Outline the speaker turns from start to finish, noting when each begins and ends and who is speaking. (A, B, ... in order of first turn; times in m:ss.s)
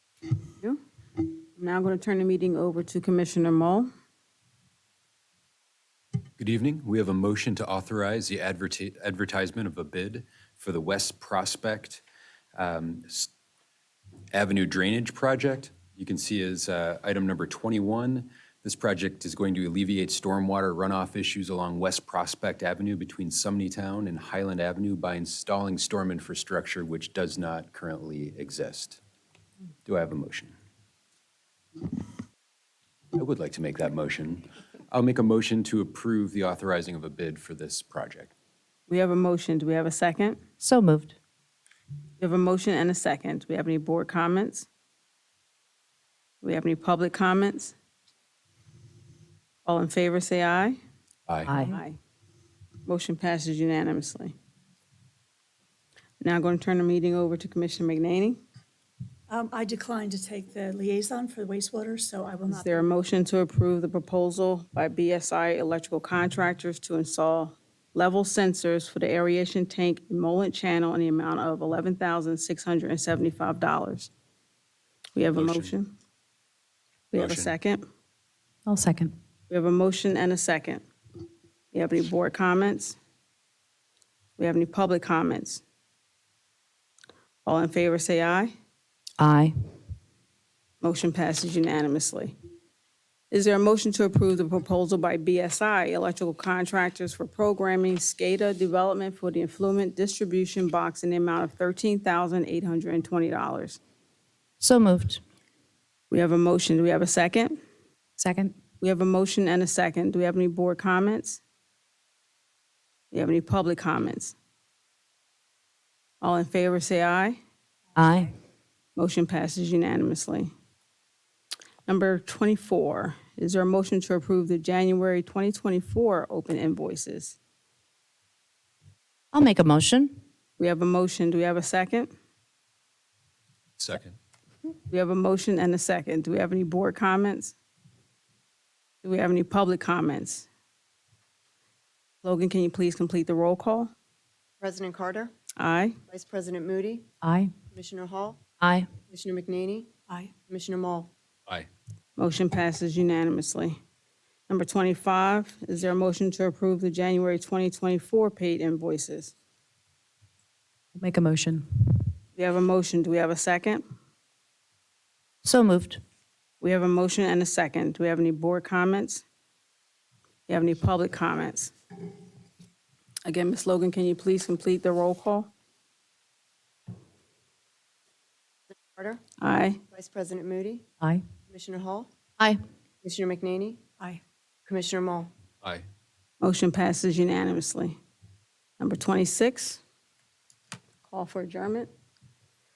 0:01.5-0:03.9 A
0:06.4-0:12.0 B
0:12.6-0:13.3 B
0:14.3-0:29.0 B
0:29.8-0:30.5 B
0:33.1-0:38.3 B
0:38.9-0:40.4 A
0:40.6-0:41.2 C
0:42.2-0:44.7 A
0:46.4-0:47.7 A
0:49.6-0:50.8 A
0:51.3-0:51.5 B
0:51.4-0:51.8 C
0:51.6-0:52.0 A
0:52.8-0:54.3 A
0:56.2-0:58.4 A
0:59.3-1:02.9 D
1:02.5-1:14.1 A
1:15.2-1:15.9 A
1:15.3-1:15.7 B
1:17.1-1:17.8 A
1:17.1-1:17.5 B
1:18.7-1:19.1 C
1:19.5-1:20.8 A
1:21.7-1:23.0 A
1:24.4-1:25.6 A
1:27.4-1:28.5 A
1:29.2-1:29.5 C
1:30.8-1:32.3 A
1:33.3-1:43.8 A
1:44.6-1:45.2 C
1:46.1-1:47.6 A
1:48.2-1:48.5 C
1:48.8-1:51.4 A
1:53.1-1:54.3 A
1:56.2-1:57.4 A
1:58.0-1:58.3 C
1:59.0-2:00.5 A
2:01.9-2:07.4 A
2:09.3-2:10.2 C
2:10.6-2:12.1 A
2:13.8-2:14.2 B
2:14.9-2:17.5 A
2:19.0-2:20.5 A
2:22.2-2:23.9 A
2:24.6-2:25.3 E
2:25.6-2:26.0 A
2:26.1-2:27.0 E
2:27.2-2:27.5 C
2:27.7-2:28.4 E
2:28.6-2:28.9 C
2:29.1-2:29.9 E
2:30.5-2:31.1 E
2:32.2-2:33.8 A
2:34.5-2:39.3 A
2:40.9-2:41.7 C
2:42.4-2:43.8 A
2:45.4-2:46.0 C
2:46.6-2:49.2 A
2:50.5-2:51.7 A
2:53.2-2:55.5 A
2:58.7-2:59.2 E
2:59.4-2:59.8 A
2:59.9-3:00.8 E
3:01.5-3:02.1 E
3:03.0-3:03.8 E
3:04.7-3:05.3 E
3:06.4-3:08.0 A
3:08.8-3:09.8 A
3:11.1-3:11.9 A